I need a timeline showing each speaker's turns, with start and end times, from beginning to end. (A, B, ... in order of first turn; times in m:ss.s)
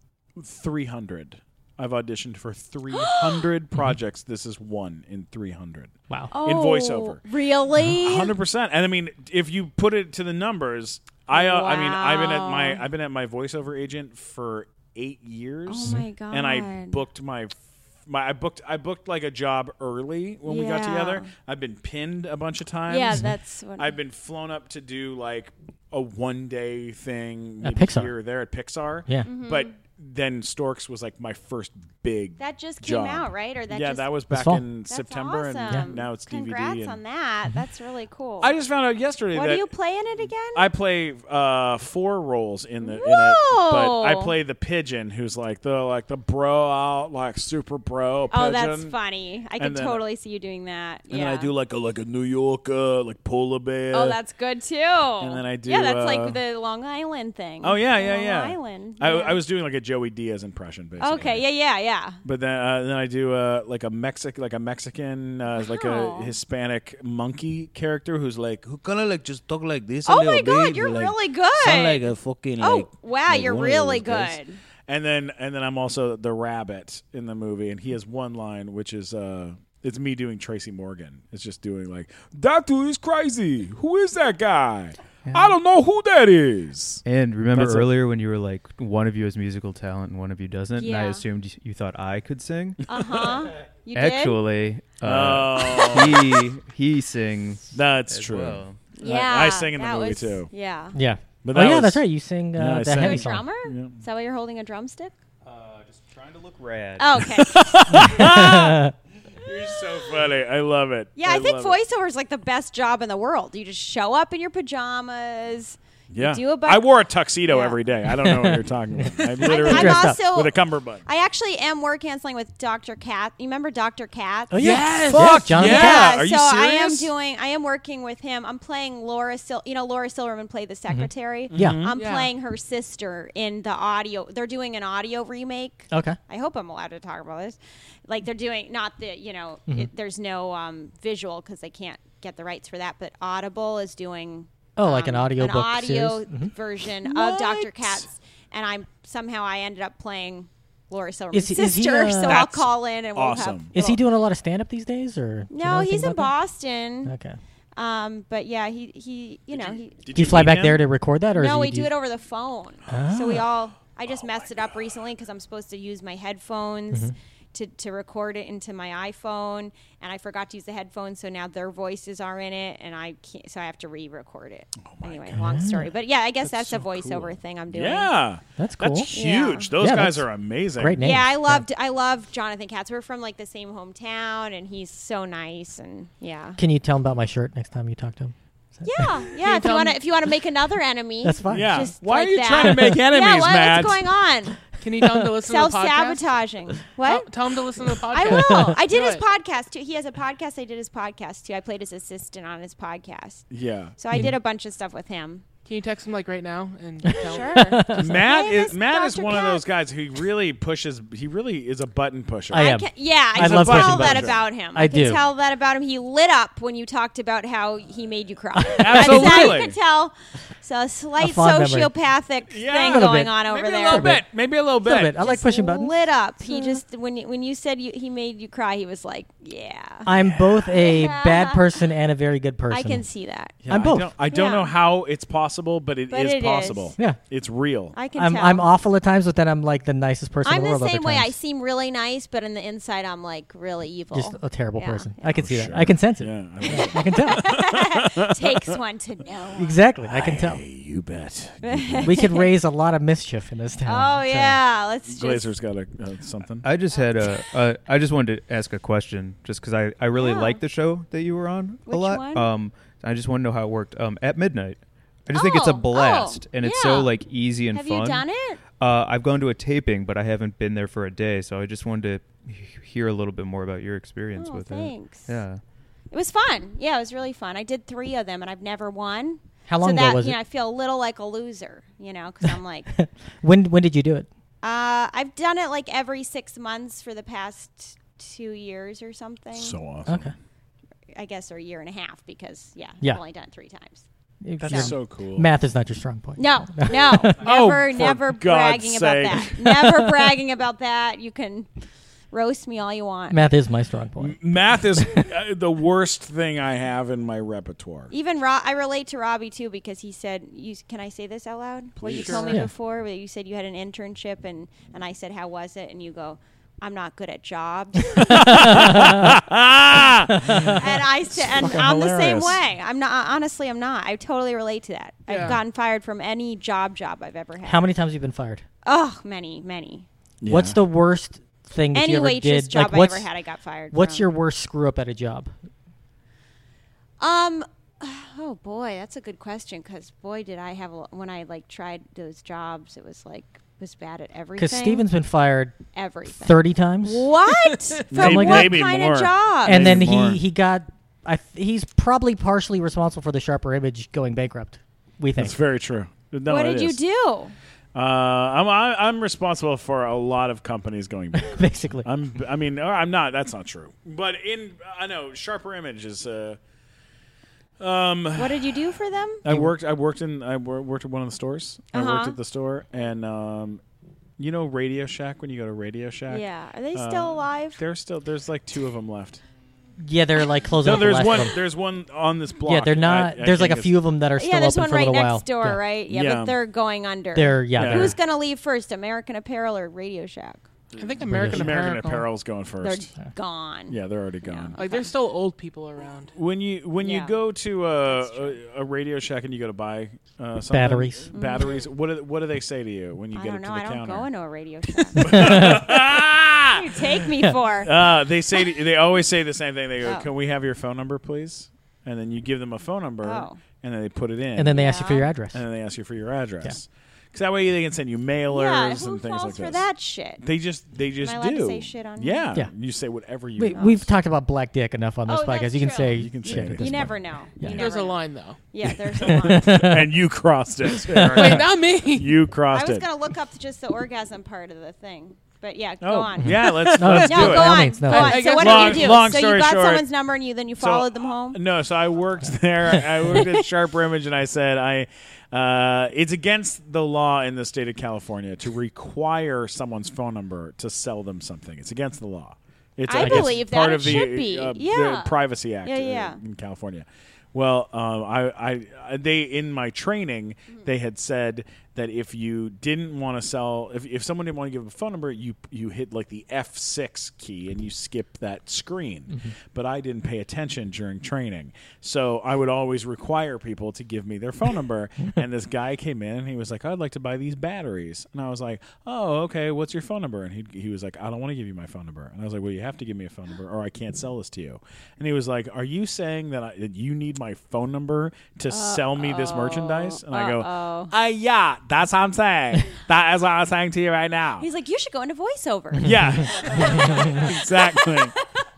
0:00.4-0:07.2 A
0:02.9-0:03.5 B
0:06.3-0:08.3 B
0:07.8-0:37.0 A
0:11.3-0:12.8 B
0:15.7-0:17.0 B
0:20.4-0:21.3 B
0:22.9-0:23.9 B
0:27.6-0:28.1 C
0:29.2-0:29.7 B
0:32.4-0:34.1 B
0:34.3-0:34.6 C
0:34.9-0:38.5 B
0:38.4-0:39.7 A
0:39.3-0:40.6 B
0:40.5-0:48.9 A
0:42.8-0:44.3 B
0:48.3-0:51.5 B
0:49.6-0:50.0 A
0:51.1-0:54.2 A
0:53.9-0:59.4 B
0:55.2-0:56.4 A
0:57.6-1:01.4 A
1:01.0-1:02.2 B
1:02.2-1:09.6 A
1:05.6-1:06.3 B
1:10.0-1:11.1 D
1:10.0-1:12.1 B
1:12.3-1:12.8 D
1:12.6-1:14.6 B
1:13.5-1:13.8 D
1:14.9-1:27.9 A
1:25.2-1:25.6 E
1:27.0-1:32.8 E
1:30.8-1:31.2 B
1:32.8-1:34.4 B
1:33.9-1:38.9 E
1:35.0-1:36.4 A
1:37.7-1:40.5 A
1:39.0-1:41.0 B
1:40.9-1:43.4 C
1:41.4-1:44.0 A
1:42.9-1:45.1 B
1:45.4-1:47.3 E
1:47.0-1:48.1 B
1:47.2-1:48.9 A
1:48.1-1:48.9 C
1:49.4-1:51.8 A
1:51.2-1:56.8 B
1:56.1-2:01.0 A
1:57.5-1:57.8 B
1:58.2-2:00.2 C
1:59.4-2:04.8 B
2:04.5-2:06.1 C
2:04.6-2:05.4 F
2:05.0-2:07.1 A
2:05.5-2:34.0 B
2:10.9-2:11.8 C
2:11.5-2:12.0 A
2:12.0-2:12.3 F
2:15.9-2:16.2 C
2:24.8-2:26.5 C
2:27.0-2:28.0 A
2:31.3-2:32.4 C
2:32.2-2:33.8 A
2:33.7-2:36.3 C
2:35.5-2:37.1 B
2:37.0-2:37.4 C
2:37.8-2:40.0 B
2:39.5-2:40.8 A
2:40.1-2:41.9 C
2:41.3-2:58.1 B
2:42.9-2:43.5 C
2:44.1-2:44.9 A
2:54.8-2:55.5 A
2:55.3-2:55.9 C
2:56.4-3:01.0 A
2:58.6-2:59.1 C
2:59.1-2:59.7 B
2:59.8-3:00.2 C
3:00.8-3:01.6 C
3:01.0-3:06.6 B
3:06.6-3:09.1 C
3:08.8-3:14.6 B
3:09.3-3:10.0 F
3:11.2-3:11.7 C
3:11.5-3:14.0 A
3:14.8-3:19.2 F
3:15.0-3:15.2 C
3:15.4-3:17.3 B
3:18.1-3:23.5 B
3:18.3-3:18.7 C
3:23.5-3:24.0 A
3:24.0-3:25.4 B
3:24.1-3:24.4 C
3:25.6-3:27.9 F
3:27.1-3:28.0 C
3:27.2-3:29.6 B
3:27.9-3:32.8 A
3:32.5-3:44.2 B
3:32.5-3:35.2 C
3:33.3-3:34.4 A
3:38.6-3:39.6 C
3:38.8-3:39.8 A
3:41.2-3:41.9 C
3:42.5-3:45.2 A
3:42.8-3:43.3 C
3:43.9-3:44.2 C
3:44.8-3:46.8 C
3:45.2-3:50.1 B
3:50.0-3:53.0 C
3:50.1-3:51.1 A
3:50.7-3:51.6 B
3:52.7-3:53.6 B
3:53.6-3:58.0 A
3:53.7-3:54.1 C
3:54.3-3:54.7 B
3:56.1-3:57.0 B
3:57.9-3:58.7 B
3:58.1-4:01.3 C
4:00.4-4:05.4 B
4:04.1-4:07.5 C
4:05.3-4:08.6 A
4:06.7-4:09.8 B
4:09.6-4:10.6 C
4:10.1-4:12.2 A
4:11.6-4:12.5 B
4:12.0-4:14.6 C
4:13.8-4:15.5 B
4:15.0-4:16.7 A
4:16.6-4:28.2 E
4:16.9-4:17.3 B
4:20.1-4:20.6 B
4:21.9-4:22.5 B
4:25.3-4:27.1 B
4:27.7-4:28.6 B
4:28.8-4:35.6 E
4:34.3-4:35.3 B
4:36.1-4:42.9 B
4:39.7-4:40.4 C
4:42.4-4:44.3 C
4:44.6-4:49.8 B
4:49.5-4:50.3 A
4:50.0-4:50.3 C
4:51.1-4:54.0 B
4:54.4-4:57.4 C
4:54.6-4:55.5 A
4:56.4-5:01.7 B
4:57.4-5:00.4 A
5:02.3-5:03.4 B
5:03.3-5:05.3 C
5:04.2-5:08.1 A
5:08.1-5:18.8 B
5:12.0-5:12.5 A
5:12.0-5:12.5 F
5:18.2-5:22.6 A
5:18.2-5:19.3 C
5:20.3-5:20.8 C
5:20.5-5:27.8 B
5:21.6-5:22.3 C
5:25.3-5:25.6 F
5:27.6-5:28.6 C
5:28.8-5:30.1 B
5:30.4-5:30.8 A
5:30.5-5:33.3 C
5:31.9-5:34.2 B
5:33.9-5:35.5 C
5:37.2-5:45.0 B
5:44.6-5:47.3 C
5:45.9-5:50.0 B
5:48.1-5:50.4 A
5:48.1-5:48.8 C
5:49.6-5:55.6 C
5:55.4-5:57.0 A
5:56.5-5:57.5 B
5:57.9-6:06.6 A
6:01.4-6:02.1 C
6:07.8-6:08.9 A
6:08.4-6:09.4 B
6:09.4-6:13.8 A
6:09.4-6:09.7 C
6:11.9-6:12.4 B
6:14.4-6:19.4 A
6:16.3-6:17.8 B
6:20.0-6:21.6 C
6:20.8-6:24.0 A
6:22.6-6:25.8 C
6:24.4-6:30.6 B
6:26.1-6:26.5 A
6:27.3-6:28.2 C
6:27.8-6:28.2 A
6:30.9-6:33.1 A
6:31.0-6:32.3 F
6:31.2-6:31.7 C
6:32.8-6:35.1 B
6:33.9-6:34.8 A
6:34.8-6:36.3 F
6:36.3-6:44.3 A
6:37.0-6:37.4 B
6:38.2-6:38.5 B
6:40.7-6:41.3 C
6:41.3-6:41.8 B
6:43.3-6:45.8 B
6:45.2-6:47.0 A
6:45.2-6:45.9 C
6:46.7-6:47.9 B
6:47.8-6:54.9 A
6:50.0-6:50.3 B
6:53.2-6:53.6 B
6:54.6-6:55.6 C
6:54.7-6:55.3 B
6:55.5-6:59.8 A
6:58.5-7:00.4 B
7:00.4-7:04.1 A
7:01.2-7:02.4 B
7:03.6-7:07.8 C
7:03.7-7:04.0 B
7:05.3-7:09.9 B
7:06.2-7:07.2 A
7:07.6-7:08.6 F
7:08.8-7:13.1 A
7:09.2-7:10.1 C
7:11.0-7:11.6 C
7:11.1-7:12.4 F
7:12.7-7:21.6 B
7:16.0-7:17.9 A
7:16.4-7:18.5 C
7:18.0-7:19.3 F
7:18.4-7:20.0 A
7:20.8-8:14.7 A
7:23.3-7:23.6 B
7:33.1-7:36.4 B
7:33.1-7:33.6 C
8:08.7-8:11.1 B
8:14.6-8:18.4 B
8:16.0-8:18.3 A